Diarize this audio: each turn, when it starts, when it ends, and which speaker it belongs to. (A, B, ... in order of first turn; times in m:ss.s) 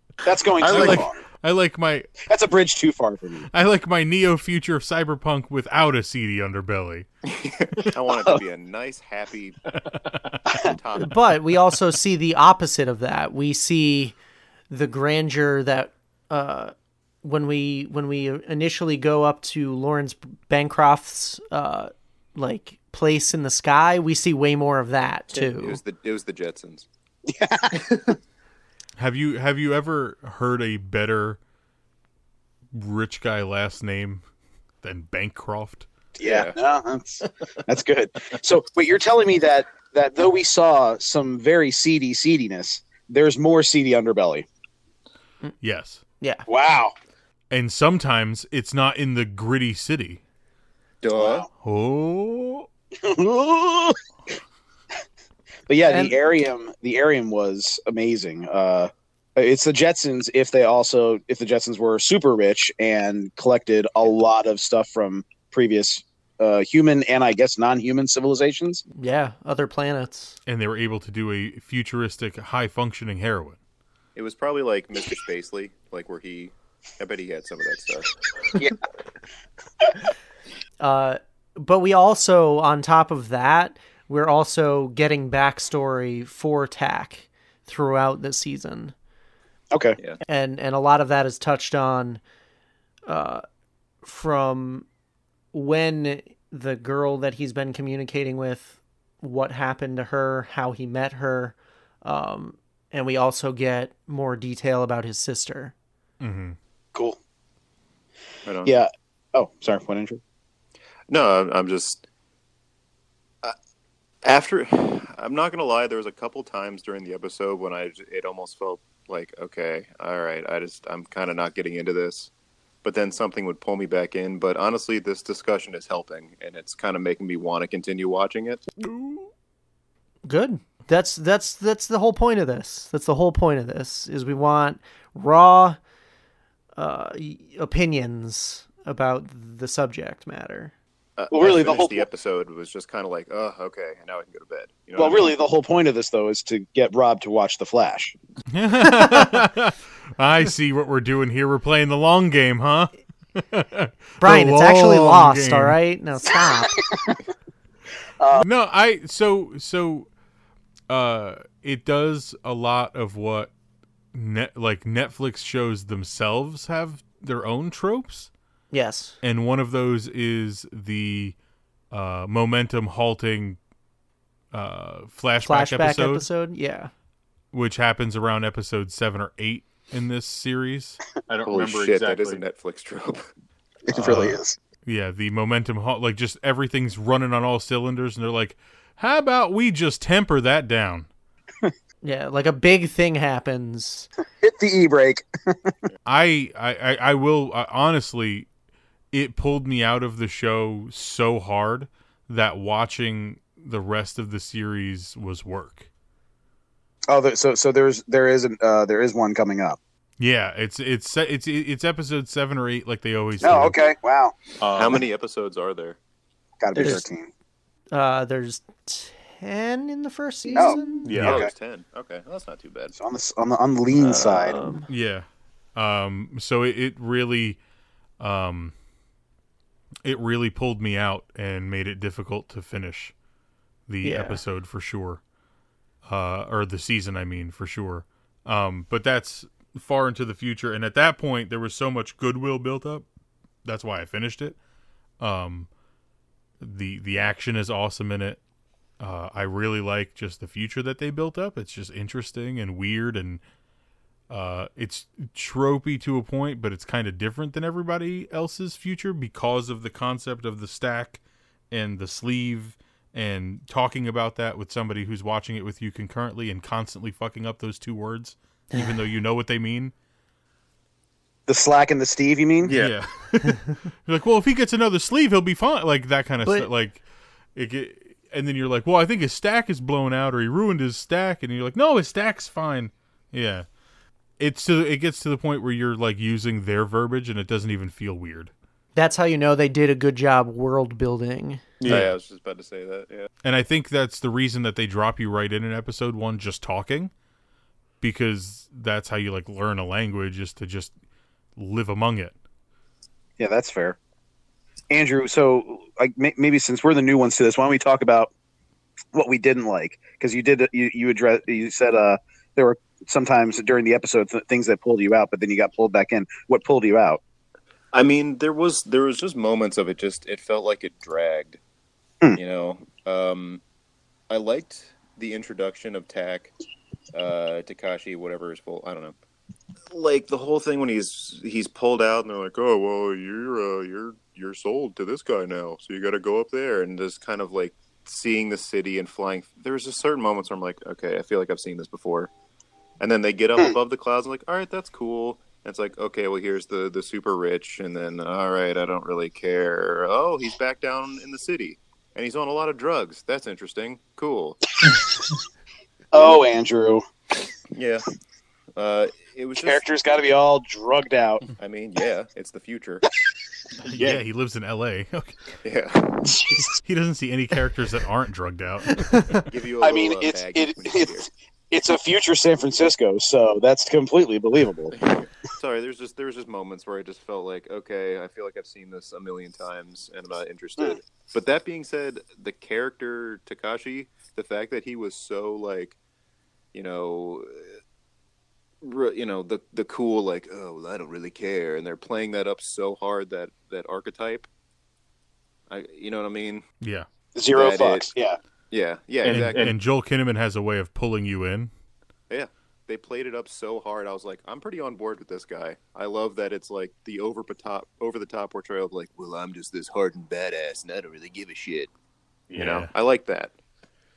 0:00.2-0:01.2 A
0:00.6-0:02.2 B
0:02.2-0:03.5 A
0:03.5-0:07.0 B
0:07.3-0:09.7 C
0:09.9-0:10.4 B
0:10.5-0:11.2 C
0:11.0-0:14.2 D
0:14.7-0:25.8 D
0:25.3-0:26.9 C
0:27.2-0:28.1 A
0:29.0-0:31.4 B
0:32.7-0:34.2 B
0:34.8-0:35.9 B
0:36.2-0:44.4 A
0:36.2-0:36.5 C
0:45.6-0:46.0 B
0:46.2-0:46.4 D
0:46.5-0:46.9 A
0:47.5-0:50.2 B
0:51.0-0:51.5 C
0:51.2-0:51.5 A
0:51.6-0:52.7 B
0:53.0-0:54.0 A
0:55.7-1:08.8 A
0:55.9-0:56.1 D
1:09.0-1:10.4 D
1:10.5-1:13.6 B
1:14.1-1:18.1 C
1:20.8-1:28.9 D
1:29.7-1:30.0 A
1:30.2-1:32.2 D
1:33.1-1:33.4 D
1:34.0-1:34.9 D
1:35.5-1:45.7 D
1:46.2-1:46.6 B
1:46.9-1:47.2 A
1:48.4-1:48.7 C
1:48.6-1:50.2 A
1:51.1-1:52.0 C
1:54.2-2:02.3 C
2:02.8-2:08.6 C
2:08.8-2:09.2 D
2:10.2-2:15.8 D
2:16.8-2:20.7 D
2:21.2-2:25.4 C
2:21.3-2:22.1 A
2:25.0-2:28.1 A
2:28.5-2:35.8 B
2:34.2-2:36.8 D
2:36.8-2:37.2 A
2:38.2-2:38.5 A
2:38.3-2:40.1 B
2:40.9-2:43.5 B
2:44.1-2:48.3 B
2:48.7-2:49.2 D
2:49.2-2:51.4 B
2:51.9-2:53.6 B
2:54.5-2:56.3 B
2:55.4-2:56.9 D
2:57.5-3:01.0 B
3:01.3-3:02.4 E
3:01.4-3:03.3 C
3:03.9-3:04.6 A
3:04.0-3:11.1 B
3:12.0-3:14.1 D
3:14.4-3:15.7 A
3:16.0-3:18.5 B
3:19.1-3:25.9 B
3:27.1-3:29.8 A
3:30.2-3:33.8 B
3:33.4-3:34.4 A
3:34.6-3:35.0 E
3:34.6-3:36.0 C
3:36.6-3:37.3 A
3:36.8-3:37.0 D
3:37.9-3:41.1 D
3:40.5-3:41.5 A
3:41.0-3:41.4 E
3:41.1-3:42.9 C
3:43.0-3:44.6 A
3:44.1-3:44.9 D
3:44.9-3:47.6 B
3:48.2-3:48.7 B
3:50.0-3:53.1 B
3:53.9-3:55.2 B
3:54.0-3:54.4 D
3:56.0-4:03.0 B
4:03.6-4:04.6 B
4:05.2-4:05.7 B
4:06.6-4:08.4 B
4:09.0-4:13.4 B
4:14.3-4:29.9 B
4:31.5-4:32.7 A
4:32.7-4:37.0 B
4:37.5-4:43.6 B
4:44.4-4:48.5 B
4:49.0-4:51.6 D
4:51.8-4:52.1 E
4:51.8-4:53.3 C
4:51.9-4:52.1 B
4:53.4-4:57.1 B
4:58.0-5:00.9 B
5:01.6-5:02.3 B
5:03.4-5:04.0 A
5:04.9-5:08.3 A
5:09.1-5:17.2 A
5:17.9-5:21.6 C
5:22.3-5:23.6 C
5:24.3-5:26.5 C
5:27.1-5:29.2 C
5:29.9-5:42.3 C
5:43.0-5:54.7 C
5:56.1-5:57.0 A
5:56.1-5:56.4 C
5:57.7-5:58.1 C
5:58.8-5:59.8 C
5:59.6-6:01.5 A
6:01.6-6:03.1 C
6:03.8-6:05.4 B
6:05.6-6:06.4 C
6:06.8-6:09.5 B
6:09.1-6:09.4 D
6:09.4-6:11.3 C
6:09.8-6:14.9 A
6:14.9-6:26.0 C
6:26.7-6:27.7 C
6:28.8-6:34.5 C
6:35.7-6:36.6 C
6:36.8-6:37.1 B
6:37.3-6:38.4 A
6:37.5-6:38.1 C
6:38.7-6:39.7 C
6:39.2-6:39.7 E
6:39.3-6:41.7 B
6:42.3-6:51.9 C
6:52.5-6:52.9 B
6:52.6-6:53.5 C